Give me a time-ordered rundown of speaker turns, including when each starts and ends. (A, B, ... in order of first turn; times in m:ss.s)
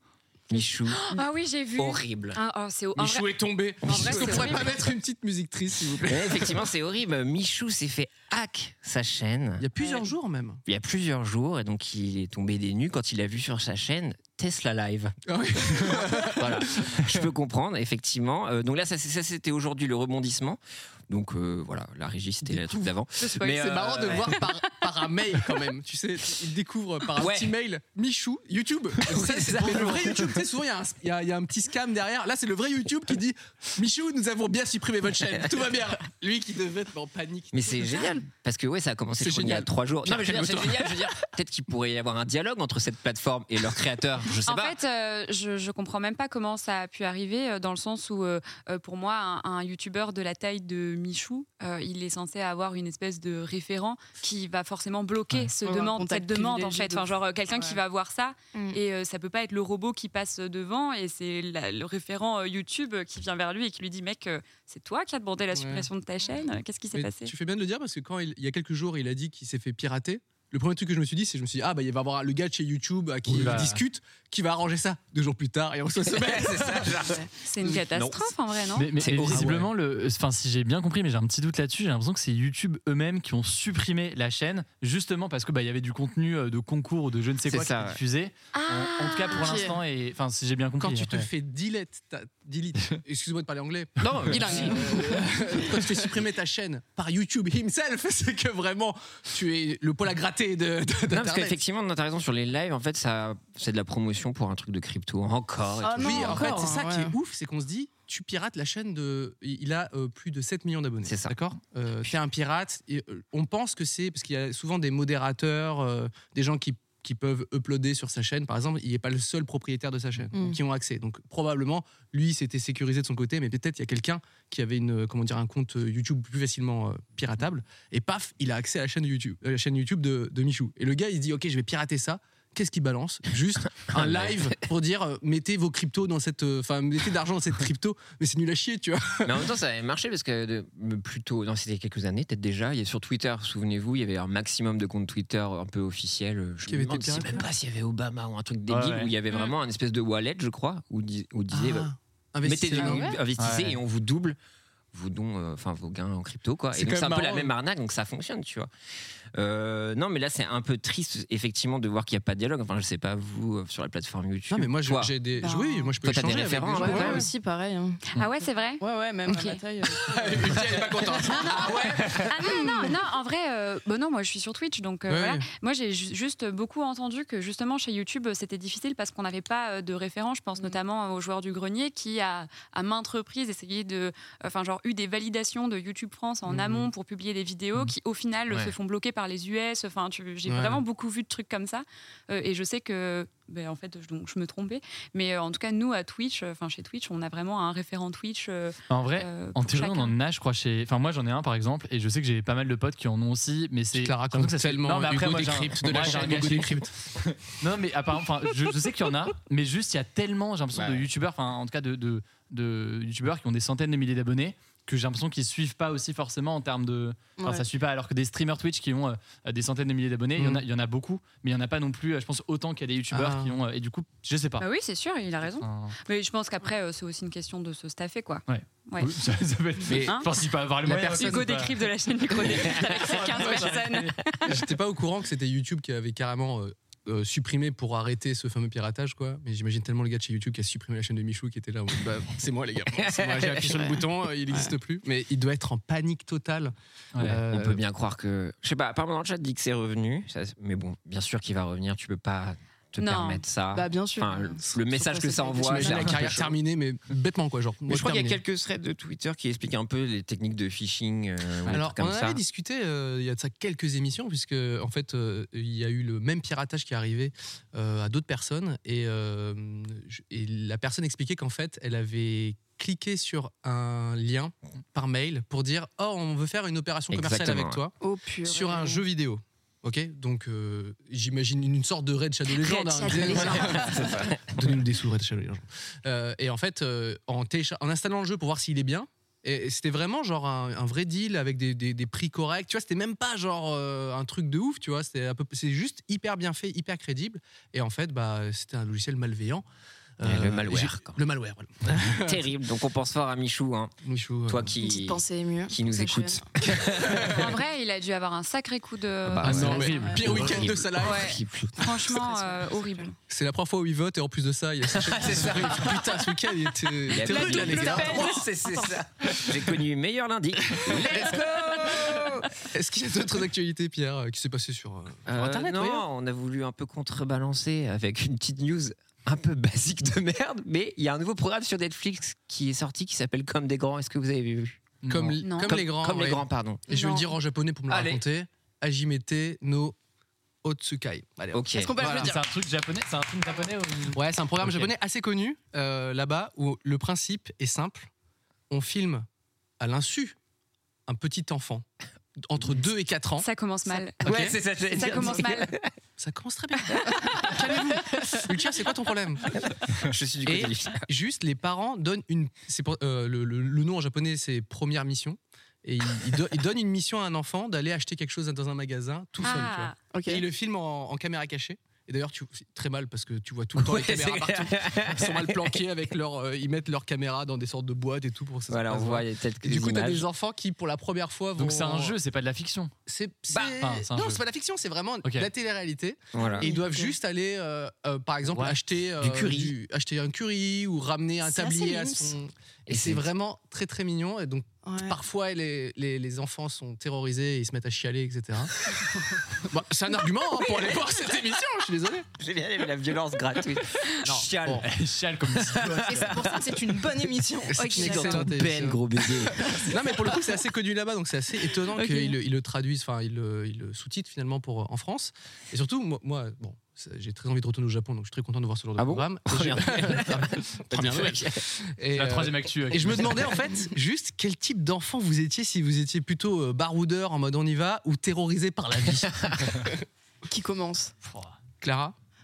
0:00.5-0:01.1 A
0:00.8-0:04.8 B
0:01.8-0:02.4 A
0:03.0-0:06.6 C
0:03.8-0:04.6 A
0:06.0-0:09.7 A
0:09.6-0:10.6 C
0:10.6-0:15.2 A
0:15.3-0:16.7 C
0:15.8-0:24.4 A
0:22.4-0:38.1 C
0:23.2-0:23.8 B
0:27.2-0:27.5 A
0:29.0-0:30.4 A
0:37.5-0:44.8 A
0:39.2-0:41.1 C
0:44.5-1:07.3 B
0:55.6-0:57.8 D
0:58.5-0:58.8 D
1:05.5-1:05.9 C
1:06.9-1:17.1 C
1:13.2-1:13.8 E
1:16.1-1:18.3 A
1:17.4-1:18.9 B
1:18.7-1:31.3 E
1:19.0-1:19.7 A
1:19.3-1:19.6 C
1:27.5-1:28.0 A
1:28.5-1:29.6 B
1:29.4-1:29.8 D
1:30.8-1:41.6 C
1:34.0-1:35.1 A
1:34.3-1:35.4 D
1:41.1-1:46.6 A
1:45.8-1:47.2 D
1:46.0-2:19.4 C
1:51.0-1:51.3 A
2:00.3-2:00.6 D
2:13.8-2:14.5 A
2:19.2-2:31.9 A
2:26.6-2:27.5 C
2:28.7-2:29.1 E
2:31.5-2:33.2 C
2:32.4-2:34.4 A
2:32.8-2:33.2 D
2:33.4-2:33.8 E
2:34.9-2:38.7 A
2:36.7-2:37.5 C
2:39.3-2:45.1 A
2:44.5-2:47.3 C
2:45.4-2:46.0 D
2:46.0-2:47.3 A
2:46.7-2:48.0 D
2:48.1-2:48.8 B
2:48.8-2:50.4 D
2:50.0-2:51.7 C
2:51.2-3:20.2 B
2:52.4-2:52.9 D
2:55.1-2:55.4 C
3:06.5-3:06.9 C
3:10.5-3:10.8 C
3:18.9-3:44.6 E
3:23.9-3:26.9 C
3:30.7-3:31.1 A
3:37.4-3:37.7 D
3:40.4-3:40.6 C
3:43.1-3:43.6 C
3:44.6-3:49.1 B
3:45.6-3:46.0 E
3:48.5-3:51.8 E
3:49.8-3:50.3 C
3:50.0-3:50.3 B
3:50.8-3:51.5 C
3:51.1-3:54.5 B
3:52.5-3:53.6 A
3:52.8-3:54.1 E
3:54.4-4:07.8 C
4:03.0-4:04.0 A
4:07.2-4:16.6 A
4:13.0-4:13.4 B
4:13.7-4:16.2 D
4:15.6-4:18.4 C
4:17.9-4:22.4 A
4:21.7-4:59.6 C
4:37.1-4:37.8 A
4:38.0-4:39.0 D
4:42.6-4:44.2 D
4:43.1-4:44.4 A
5:00.2-5:02.4 C
5:00.2-5:01.2 A
5:02.2-5:03.9 A
5:04.0-5:04.7 C
5:04.5-5:07.5 A
5:04.8-5:06.4 D
5:06.7-5:07.6 C
5:07.3-5:09.8 B
5:09.2-5:11.7 A
5:09.4-5:11.4 C
5:09.4-5:10.7 E
5:09.8-5:10.2 D
5:11.0-5:13.1 B
5:12.1-5:13.1 D
5:13.3-5:18.4 C
5:14.9-5:16.2 A
5:17.1-5:22.5 A
5:17.2-5:19.0 B
5:20.6-5:26.0 C
5:25.3-5:34.9 A
5:35.0-5:35.4 E
5:35.1-5:39.9 C
5:35.4-5:35.8 B
5:35.6-5:36.8 A
5:36.9-5:37.2 D
5:37.9-5:38.2 A
5:40.6-5:42.3 C
5:41.5-5:42.0 A
5:41.7-5:42.4 D
5:42.1-5:44.9 E
5:44.1-5:48.1 C
5:48.7-5:49.2 C
5:49.8-5:50.4 C
5:51.1-5:51.8 C
5:52.4-5:53.4 C
5:53.4-5:54.3 B
5:54.2-5:55.5 C
5:54.2-5:55.9 A
5:54.9-5:55.7 B
5:56.2-5:59.5 C
5:57.0-5:57.5 B
5:59.5-6:01.0 A
6:00.4-6:22.2 C
6:09.4-6:10.0 B
6:10.1-6:10.4 D
6:13.7-6:15.8 A
6:18.7-6:20.2 A
6:21.6-6:22.9 E
6:23.1-6:38.7 C
6:23.7-6:24.4 E
6:25.2-6:25.5 E
6:26.3-6:26.7 A
6:26.6-6:27.2 D
6:28.5-6:28.8 E
6:29.2-6:29.7 A
6:31.4-6:32.3 D
6:32.9-6:33.3 A
6:34.8-6:35.2 D
6:39.6-6:42.2 C
6:42.4-6:44.8 A
6:44.2-6:44.9 C
6:44.8-6:46.3 E
6:45.6-6:46.7 A
6:46.1-6:48.5 D
6:47.7-7:10.0 C
6:47.8-6:49.6 A
6:49.6-6:49.9 D
6:51.9-6:52.4 D
6:59.0-7:01.6 A
7:02.1-7:03.6 E
7:09.2-7:09.6 A
7:10.5-7:11.1 D
7:11.2-7:11.6 E
7:11.8-7:12.1 C